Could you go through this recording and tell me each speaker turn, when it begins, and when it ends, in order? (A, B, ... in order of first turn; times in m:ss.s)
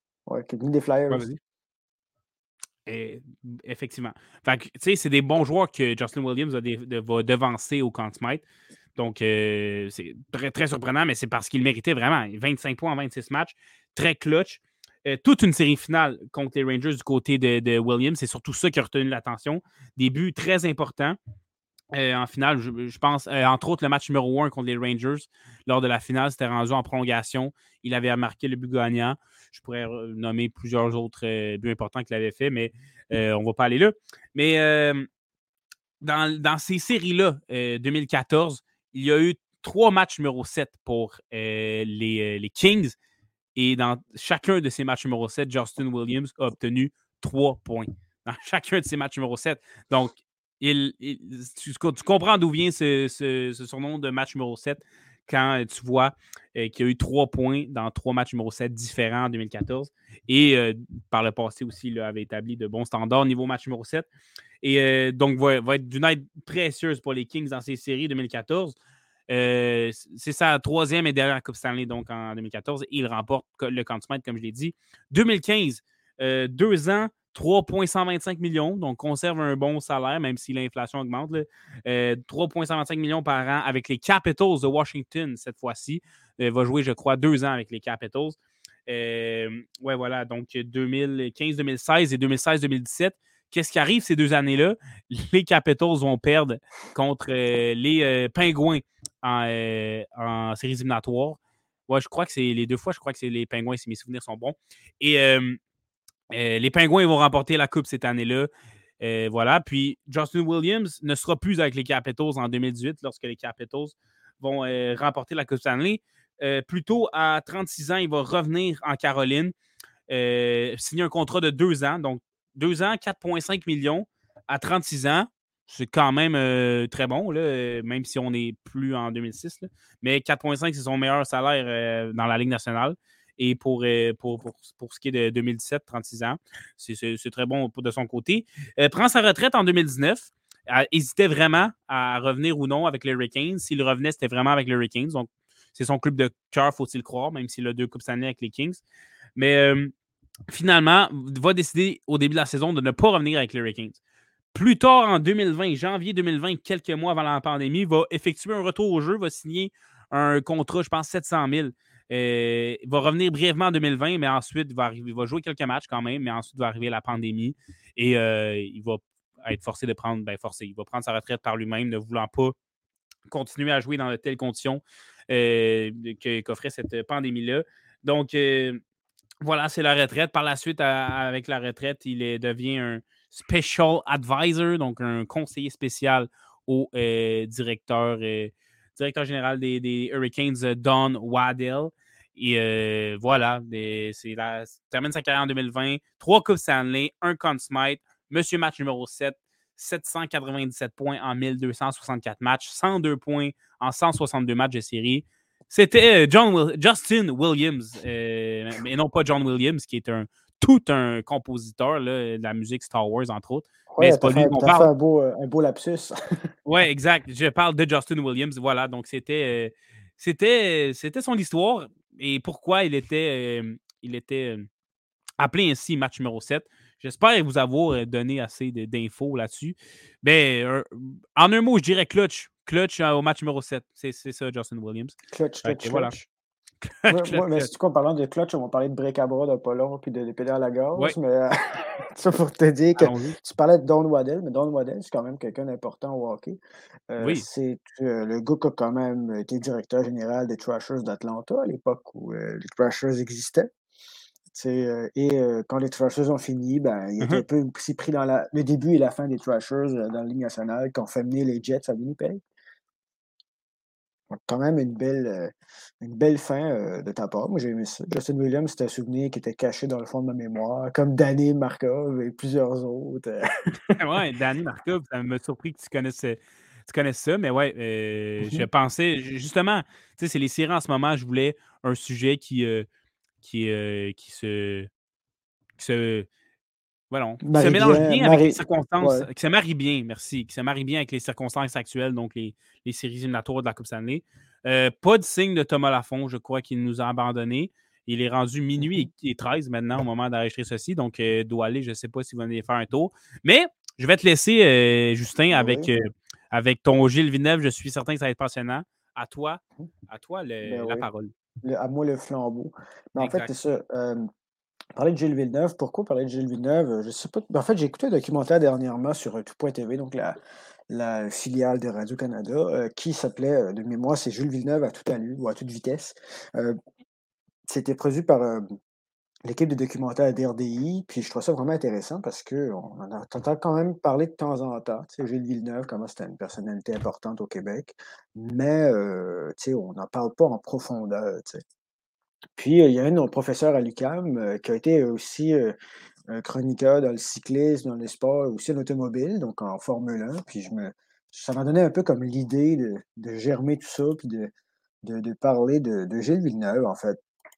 0:00.3-0:01.2 A
0:01.1-0:01.4 B
0:02.8-0:08.4 B
0:09.0-0:21.2 B
0:21.9-0:35.1 B
0:36.0-0:43.0 B
0:43.5-1:04.1 B
1:04.6-1:08.7 B
1:09.3-1:45.6 B
1:46.3-1:48.5 B
1:49.0-1:59.5 B
2:00.1-2:28.8 B
2:29.4-2:29.9 B
2:30.5-2:34.0 B
2:34.5-2:52.5 B
2:53.3-2:58.8 B
2:59.4-3:34.9 B
3:33.9-3:36.2 A
3:36.6-3:44.7 B
3:45.4-3:56.1 B
3:55.3-3:56.2 A
3:56.8-3:57.7 B
3:57.1-4:06.6 A
4:03.0-4:03.4 B
4:07.1-4:13.7 A
4:07.2-4:07.4 B
4:14.5-4:22.4 A
4:24.3-4:34.0 A
4:34.0-4:42.9 B
4:43.4-4:44.9 B
4:45.8-4:46.3 B
4:47.1-5:11.3 B
4:47.4-4:49.3 A
4:58.8-4:59.1 A
5:05.5-5:05.9 A
5:10.6-5:11.0 A
5:11.6-5:14.2 A
5:13.2-5:13.5 B
5:15.0-5:20.4 A
5:20.9-5:26.8 A
5:27.7-5:28.6 A
5:29.4-5:41.6 A
5:42.6-5:45.7 A
5:46.3-5:54.5 A
5:55.0-5:57.2 A